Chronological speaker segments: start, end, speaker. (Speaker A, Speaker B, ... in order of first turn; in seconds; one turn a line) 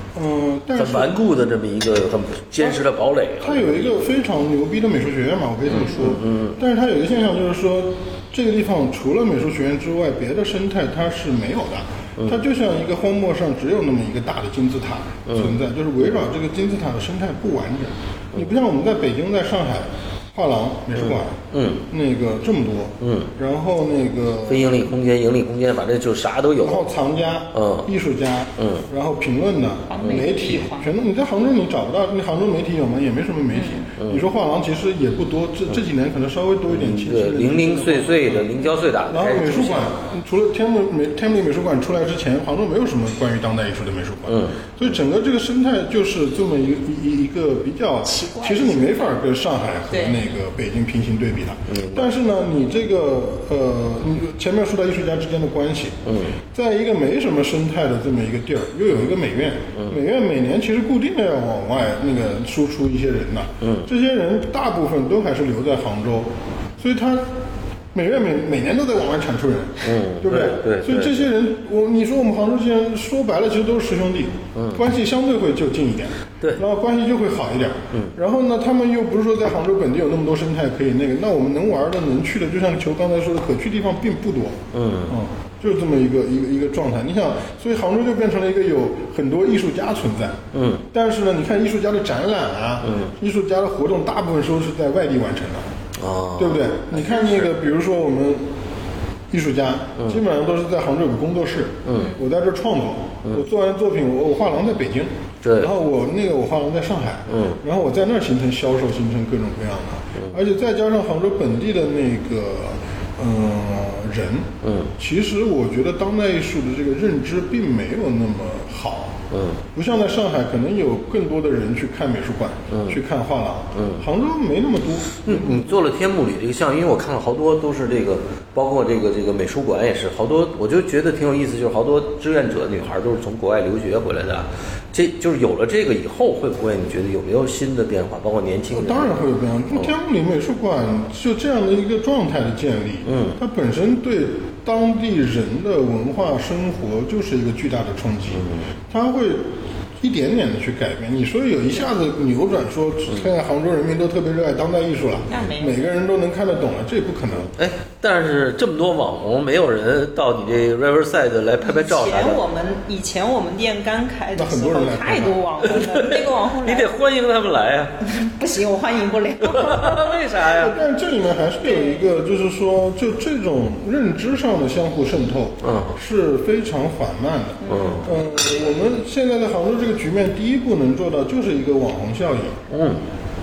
Speaker A: 0.1-1.2
Speaker B: 0.8-4.1
Speaker A: 3.4-21.4
Speaker B: 5.7-6.6
Speaker B: 15.3-15.6
Speaker B: 21.0-21.9
Speaker A: 21.9-24.7
Speaker B: 23.0-23.3
Speaker B: 24.5-26.9
Speaker A: 26.6-38.5
Speaker B: 27.5-27.9
Speaker B: 28.6-28.9
Speaker C: 29.9-30.9
Speaker C: 33.5-33.9
Speaker B: 34.0-34.3
Speaker B: 36.7-39.9
Speaker A: 39.1-56.0
Speaker B: 44.3-44.7
Speaker C: 48.1-49.1
Speaker C: 49.9-50.2
Speaker B: 51.7-52.1
Speaker B: 56.1-56.4
Speaker A: 56.5-67.3
Speaker B: 63.6-63.9
Speaker A: 67.9-90.4
Speaker B: 69.8-71.3
Speaker B: 74.5-74.8
Speaker B: 84.7-85.2
Speaker B: 90.5-90.9
Speaker A: 90.9-95.7
Speaker B: 92.8-93.1
Speaker B: 96.0-97.5
Speaker A: 96.4-98.5
Speaker A: 99.3-119.2
Speaker B: 101.8-102.1
Speaker B: 105.4-105.7
Speaker B: 107.3-107.6
Speaker B: 114.6-114.9
Speaker B: 119.3-119.6
Speaker A: 119.7-125.7
Speaker B: 122.7-123.0
Speaker B: 123.7-124.1
Speaker B: 125.2-139.9
Speaker A: 138.7-149.5
Speaker B: 143.1-143.4
Speaker B: 148.3-148.7
Speaker A: 150.0-157.5
Speaker C: 155.3-155.9
Speaker B: 157.5-162.4
Speaker C: 161.6-166.9
Speaker A: 164.3-165.5
Speaker B: 165.6-168.1
Speaker C: 168.0-170.7
Speaker B: 169.4-170.8
Speaker A: 170.6-182.6
Speaker C: 171.6-172.1
Speaker B: 175.6-176.0
Speaker C: 177.6-178.1
Speaker B: 177.7-178.1
Speaker B: 182.7-183.0